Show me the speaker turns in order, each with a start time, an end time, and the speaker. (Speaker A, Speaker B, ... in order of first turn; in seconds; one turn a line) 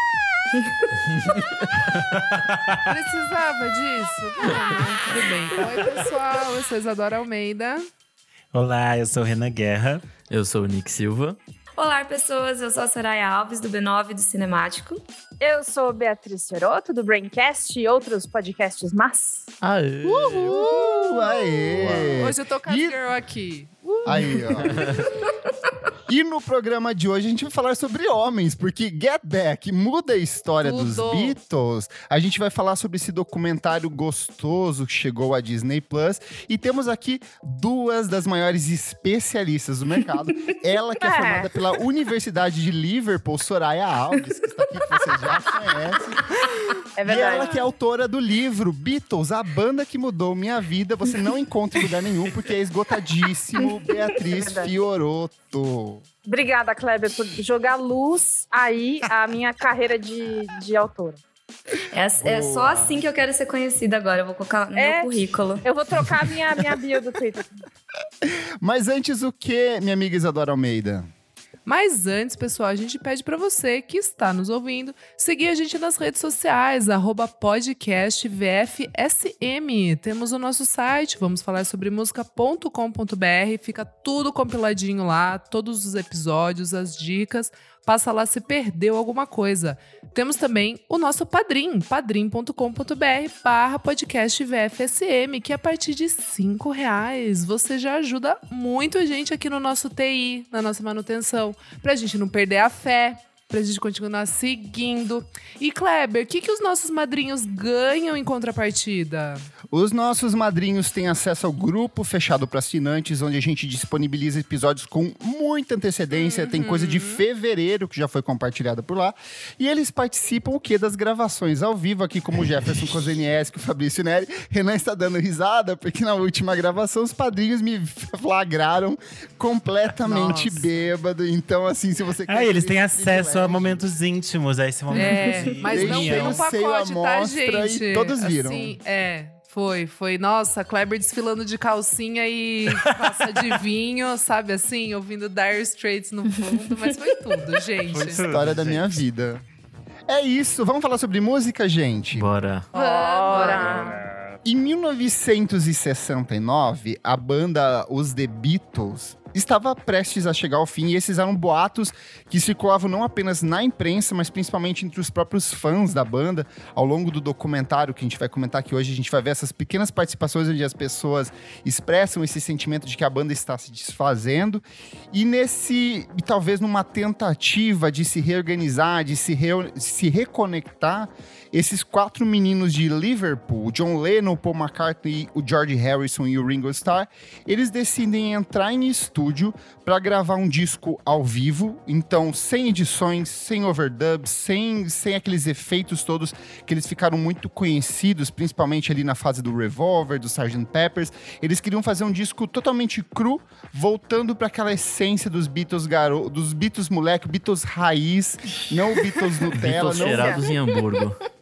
Speaker A: 2.0-2.9
Speaker B: 2.9-7.8
Speaker A: 8.5-10.1
Speaker C: 10.3-11.4
Speaker D: 11.8-15.0
Speaker E: 15.4-19.5
Speaker C: 19.6-22.2
Speaker F: 20.3-23.0
Speaker B: 20.3-24.9
Speaker F: 24.0-24.8
Speaker C: 24.6-25.1
Speaker F: 26.1-46.4
Speaker B: 30.6-31.4
Speaker E: 41.0-41.5
Speaker E: 47.0-47.6
Speaker F: 47.0-56.0
Speaker D: 54.2-54.7
Speaker E: 56.2-61.2
Speaker D: 61.9-65.6
Speaker F: 62.2-63.0
Speaker E: 64.7-65.1
Speaker E: 65.6-67.5
Speaker F: 68.2-71.1
Speaker B: 71.7-109.5
Speaker F: 109.7-133.9
Speaker B: 116.1-117.2
Speaker B: 130.0-130.9
Speaker A: 132.3-136.4
Speaker B: 134.9-148.2
Speaker F: 135.6-138.7
Speaker A: 147.9-149.0
Speaker F: 148.3-149.4
Speaker F: 150.1-152.3
Speaker C: 152.1-152.7
Speaker B: 152.7-153.9
Speaker E: 152.7-153.9
Speaker D: 153.3-153.9
Speaker A: 153.4-154.4
Speaker F: 154.4-210.4
Speaker C: 209.6-211.2
Speaker E: 210.0-210.5